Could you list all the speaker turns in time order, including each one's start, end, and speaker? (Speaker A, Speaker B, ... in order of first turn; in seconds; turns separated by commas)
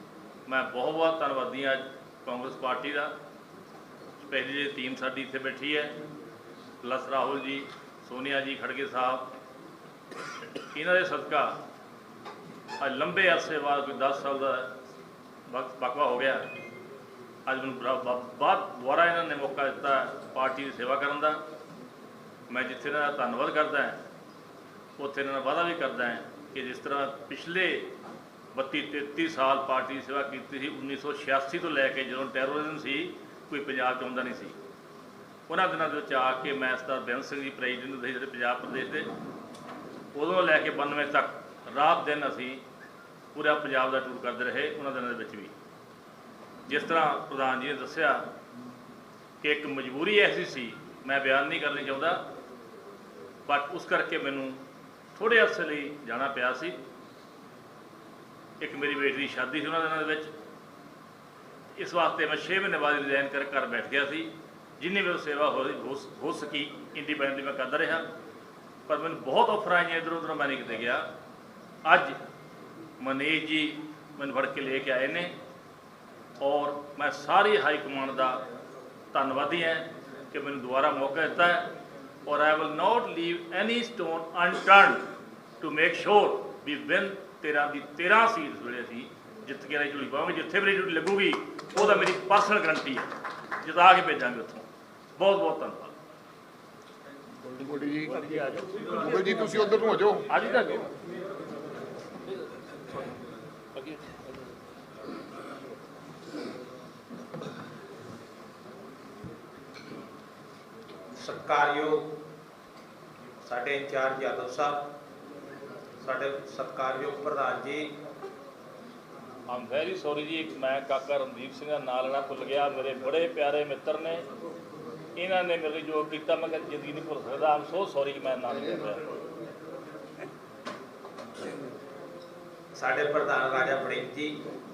Speaker A: 0.5-3.1, Speaker A: 4.2-5.9, Speaker A: 6.8-9.3, Speaker A: 10.7-11.6, Speaker A: 12.8-14.7, Speaker A: 15.5-16.4, Speaker A: 17.4-21.4, Speaker A: 22.5-24.0, Speaker A: 25.0-27.9, Speaker A: 28.5-34.5, Speaker A: 35.5-39.1, Speaker A: 40.1-42.6, Speaker A: 43.3-45.5, Speaker A: 46.7-48.2, Speaker A: 49.4-52.2, Speaker A: 53.5-54.6, Speaker A: 55.1-56.8, Speaker A: 58.6-60.3, Speaker A: 61.7-68.0, Speaker A: 68.9-71.0, Speaker A: 71.8-72.2, Speaker A: 73.0-75.3, Speaker A: 76.4-78.4, Speaker A: 79.1-81.7, Speaker A: 82.2-85.0, Speaker A: 85.6-93.1, Speaker A: 93.6-94.6, Speaker A: 95.2-95.9, Speaker B: 97.5-98.2, Speaker A: 98.1-99.5, Speaker B: 98.9-100.2, Speaker A: 100.3-100.9, Speaker C: 111.1-112.1, Speaker C: 113.4-114.9, Speaker C: 116.0-117.9, Speaker A: 119.5-124.2, Speaker A: 125.2-129.1, Speaker C: 132.7-134.4